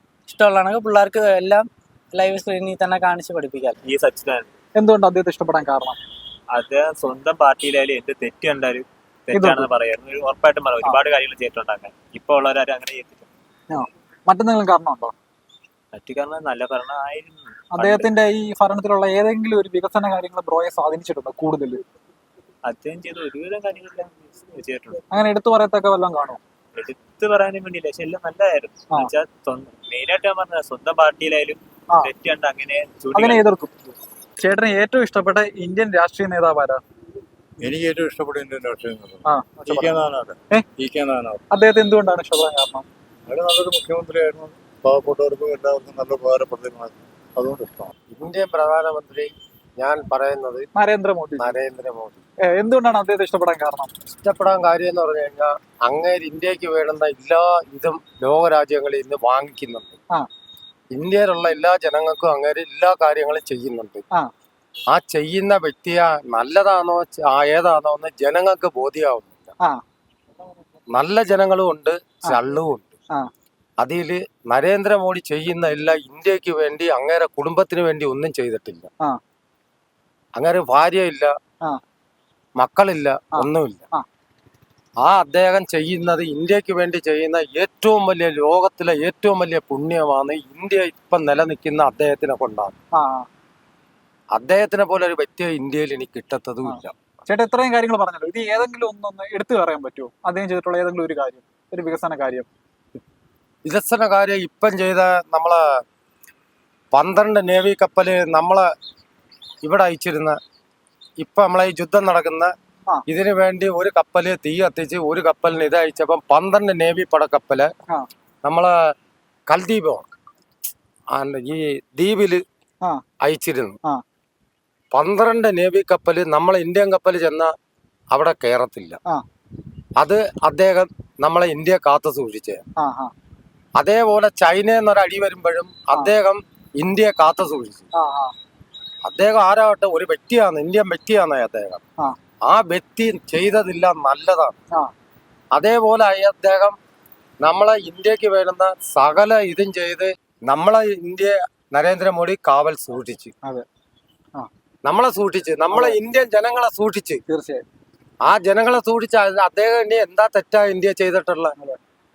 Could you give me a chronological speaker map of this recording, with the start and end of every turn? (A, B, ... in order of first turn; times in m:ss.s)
0:00.3-0:03.8 A
0:03.8-0:04.5 B
0:04.8-0:06.0 C
0:06.5-0:13.3 B
0:09.3-0:09.7 C
0:13.7-0:15.1 C
0:15.9-0:18.1 B
0:17.7-0:21.8 C
0:22.6-0:25.0 B
0:25.1-0:26.4 C
0:26.7-0:33.4 B
0:31.9-0:32.1 C
0:33.1-0:36.8 C
0:38.1-0:38.8 D
0:39.2-0:40.6 C
0:41.5-0:42.8 C
0:43.4-0:44.5 D
0:45.5-0:45.8 D
0:47.5-0:47.8 D
0:48.1-0:50.7 E
0:50.7-0:51.5 C
0:51.4-0:52.2 E
0:52.5-0:53.9 C
0:54.1-1:00.0 E
1:00.9-1:04.0 E
1:04.9-1:09.5 E
1:10.9-1:12.9 E
1:13.8-1:18.9 E
1:20.4-1:21.3 E
1:22.6-1:23.8 E
1:23.3-1:24.0 C
1:25.0-1:32.8 E
1:32.9-1:33.3 C
1:34.3-1:36.9 E
1:36.6-1:42.5 C
1:43.6-1:45.6 E
1:46.9-1:48.7 E
1:49.6-1:50.4 E
1:51.2-1:52.5 E
1:53.1-1:57.7 E
1:58.4-1:58.9 E
1:59.5-2:00.0 E
2:01.1-2:02.4 E
2:03.2-2:03.8 E
2:04.9-2:07.5 E
2:08.1-2:09.0 E
2:10.0-2:12.6 E
2:12.8-2:13.1 C
2:13.8-2:17.8 E
2:17.9-2:18.3 C
2:19.0-2:21.8 E
2:22.5-2:24.6 E
2:25.5-2:26.8 E
2:27.4-2:33.3 E
2:34.8-2:37.2 E
2:35.7-2:36.0 C
2:37.3-2:37.6 C
2:38.2-2:41.5 E